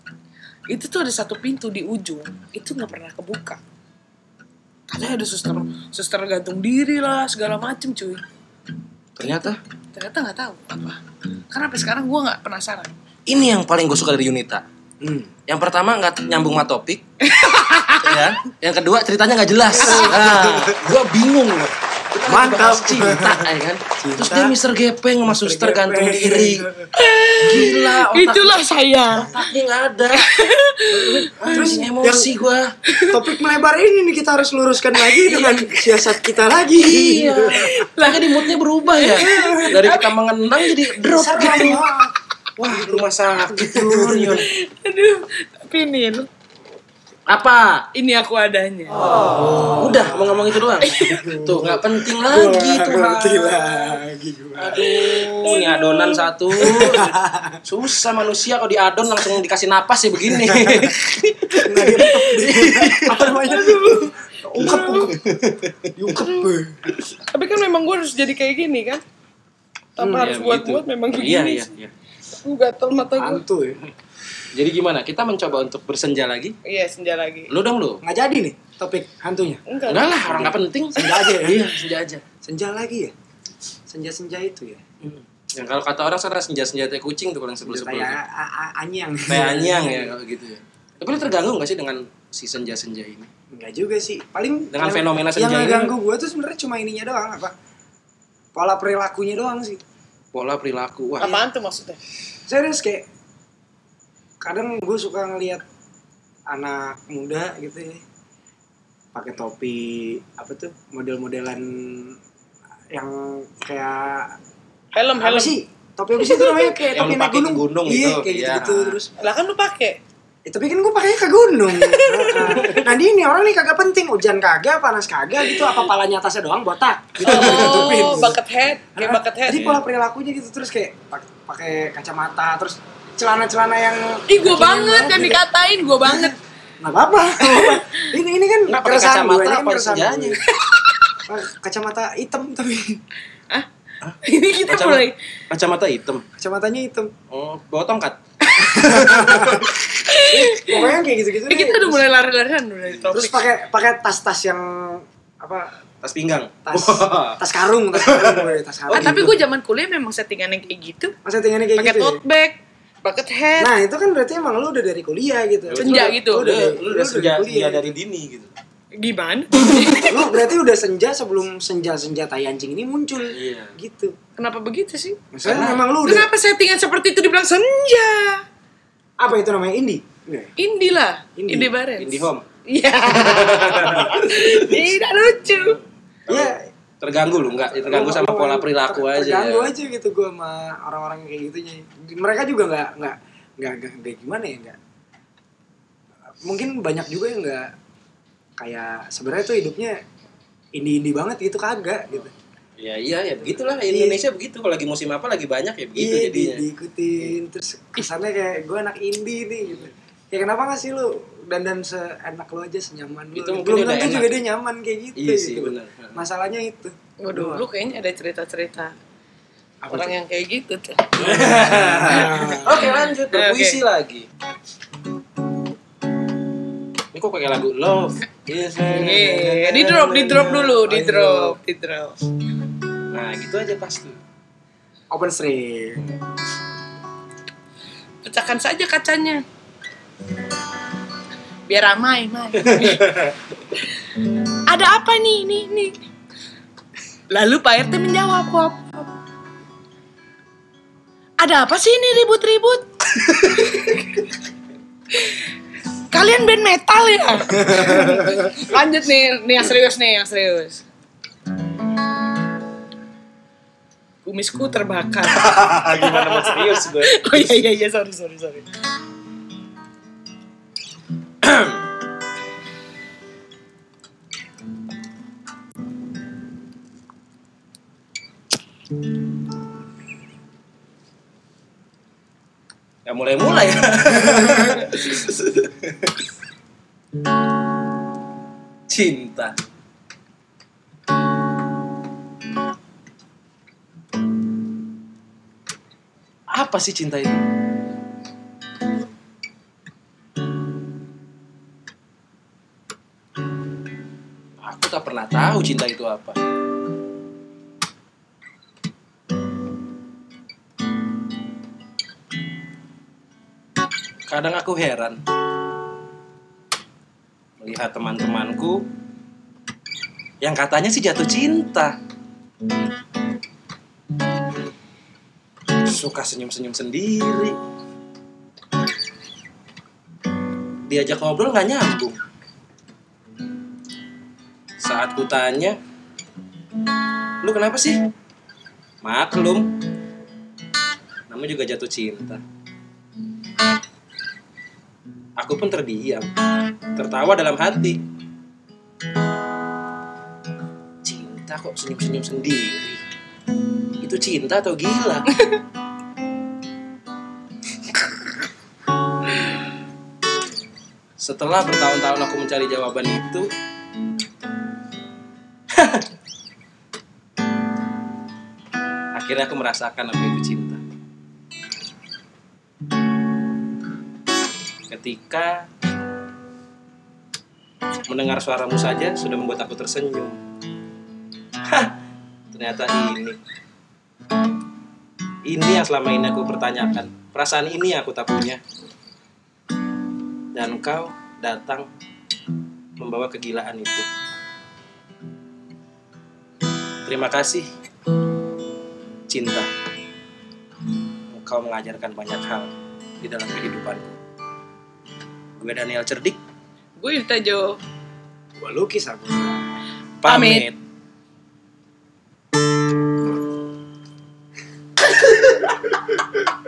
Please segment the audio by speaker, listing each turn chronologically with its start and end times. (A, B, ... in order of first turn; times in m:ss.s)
0:00.7-0:03.6 A
0:04.9-0:08.2 A
0:09.2-0:09.6 B
0:09.9-0:11.0 A
0:11.5-0:12.9 A
0:13.3-0:14.6 B
0:15.0-0:15.3 C
0:15.5-0:17.0 B
0:17.2-0:18.3 A
0:18.0-0:26.7 B
0:19.8-0:20.9 C
0:19.8-0:20.2 A
0:22.3-0:24.6 C
0:25.3-0:26.9 C
0:26.9-0:29.4 A
0:27.4-0:28.6 B
0:29.2-0:30.5 B
0:30.1-0:31.8 A
0:31.2-0:32.3 C
0:31.2-0:32.7 B
0:32.9-0:33.3 A
0:33.1-0:37.8 C
0:34.9-0:36.3 A
0:36.7-0:41.9 B
0:37.5-0:40.8 A
0:39.2-0:39.9 C
0:41.0-0:42.1 C
0:42.6-0:44.5 B
0:42.7-0:44.4 C
0:44.4-0:46.3 A
0:47.3-0:47.9 B
0:47.9-0:49.0 A
0:49.1-0:55.4 C
0:49.8-0:53.9 B
0:50.8-0:51.2 A
0:54.6-0:57.1 B
0:55.4-0:56.9 A
0:56.6-0:57.6 C
0:57.6-1:03.3 B
1:00.3-1:00.9 C
1:01.6-1:02.5 A
1:01.6-1:05.2 C
1:03.3-1:05.1 A
1:04.6-1:06.3 B
1:06.0-1:06.8 C
1:06.1-1:06.5 A
1:07.3-1:09.0 A
1:10.0-1:11.7 A
1:10.0-1:11.9 B
1:12.4-1:13.4 A
1:13.2-1:13.8 C
1:14.5-1:16.6 B
1:16.6-1:17.5 A
1:17.5-1:18.0 B
1:18.0-1:19.6 C
1:19.7-1:20.2 A
1:19.9-1:22.2 B
1:20.2-1:21.7 C
1:22.4-1:23.1 C
1:23.9-1:24.8 C
1:25.0-1:28.2 B
1:27.6-1:30.2 C
1:29.3-1:33.3 B
1:33.5-1:37.5 C
1:34.7-1:35.9 B
1:38.5-1:39.8 C
1:40.3-1:41.4 B
1:41.2-1:42.0 A
1:42.5-1:43.1 C
1:44.4-1:45.6 C
1:46.5-1:48.0 C
1:49.1-1:52.2 C
1:52.9-1:54.4 C
1:55.0-1:55.6 A
1:55.2-1:59.1 C
1:56.2-1:56.9 A
1:56.9-1:59.0 B
1:59.2-2:00.0 A
2:00.5-2:08.4 C
2:01.8-2:02.8 A
2:05.4-2:05.8 A
2:07.2-2:09.8 A
2:07.2-2:08.1 B
2:09.0-2:15.4 C
2:09.6-2:09.8 B
2:14.3-2:16.4 A
2:16.0-2:20.4 C
2:17.4-2:18.1 A
2:18.7-2:20.4 B
2:20.6-2:21.2 A
2:21.3-2:23.0 C
2:24.0-2:26.2 B
2:24.2-2:25.2 A
2:26.4-2:27.1 C
2:27.3-2:29.7 B
2:28.5-2:29.0 A
2:28.8-2:32.0 C
2:29.9-2:31.0 A
2:31.5-2:33.4 A
2:33.1-2:35.8 C
2:36.0-2:37.4 B
2:36.7-2:39.3 C
2:37.9-2:39.4 B
2:38.9-2:41.2 A
2:41.2-2:42.2 C
2:41.8-2:43.8 A
2:43.6-2:48.0 C
2:45.7-2:48.5 B
2:45.8-2:46.5 A
2:49.0-2:50.4 A
2:50.0-2:54.2 C
2:53.3-2:53.8 B
2:54.4-2:55.2 A
2:55.3-2:56.3 C
2:55.4-2:55.8 B
2:56.0-2:58.4 A
2:59.2-3:00.5 C
3:00.6-3:02.1 A
3:01.4-3:01.7 C
3:02.0-3:02.4 B
3:02.7-3:05.8 A
3:03.1-3:04.9 B
3:06.3-3:09.7 B
3:06.3-3:06.6 C
3:07.3-3:14.8 C
3:16.4-3:17.7 C
3:18.6-3:20.0 C
3:20.8-3:22.3 C
3:22.8-3:26.6 B
3:23.6-3:24.2 C
3:26.0-3:37.7 C
3:33.4-3:34.4 B
3:35.2-3:36.1 B
3:37.2-3:39.0 A
3:39.8-3:40.2 C
3:39.9-3:41.5 A
3:41.2-3:44.3 B
3:41.2-3:43.0 C
3:42.1-3:43.8 A
3:47.1-3:50.2 B
3:48.8-3:52.2 A
3:49.9-3:51.6 C
3:53.1-3:54.2 B
3:55.1-3:56.1 C
3:58.2-3:59.4 A
4:01.7-4:03.1 A
4:02.6-4:03.4 B
4:04.3-4:06.0 A
4:07.3-4:09.1 A
4:11.4-4:14.0 A
4:15.1-4:15.4 A
4:16.1-4:20.8 A
4:24.2-4:28.6 A
4:25.3-4:27.3 B
4:31.4-4:31.8 B
4:43.0-4:46.1 B
4:48.9-4:49.6 B
4:56.5-4:57.4 B
5:04.6-5:06.4 B
5:14.3-5:15.2 B
5:17.6-5:18.9 B
5:20.4-5:22.0 B
5:25.8-5:27.6 B
5:30.9-5:32.2 B
5:34.8-5:35.8 B
5:37.4-5:38.1 B
5:39.0-5:39.8 B
5:41.3-5:42.4 B
5:45.4-5:46.3 B
5:47.0-5:48.0 B
5:51.0-5:53.0 B
5:54.0-5:55.4 B
6:01.2-6:03.5 B
6:05.7-6:06.1 B
6:09.1-6:10.8 B
6:14.9-6:15.7 B
6:18.1-6:20.4 B
6:21.7-6:22.0 B
6:22.5-6:23.4 B
6:25.5-6:28.6 B
6:30.6-6:31.9 B
6:33.0-6:34.1 B
6:37.0-6:37.7 B
6:39.3-6:39.7 B
6:41.3-6:42.7 B
6:43.2-6:44.2 B
6:45.6-6:46.4 B
6:47.0-6:47.8 A
6:48.6-6:49.7 C
6:50.2-6:50.8 B
6:50.3-6:50.7 A
6:55.0-6:56.5 B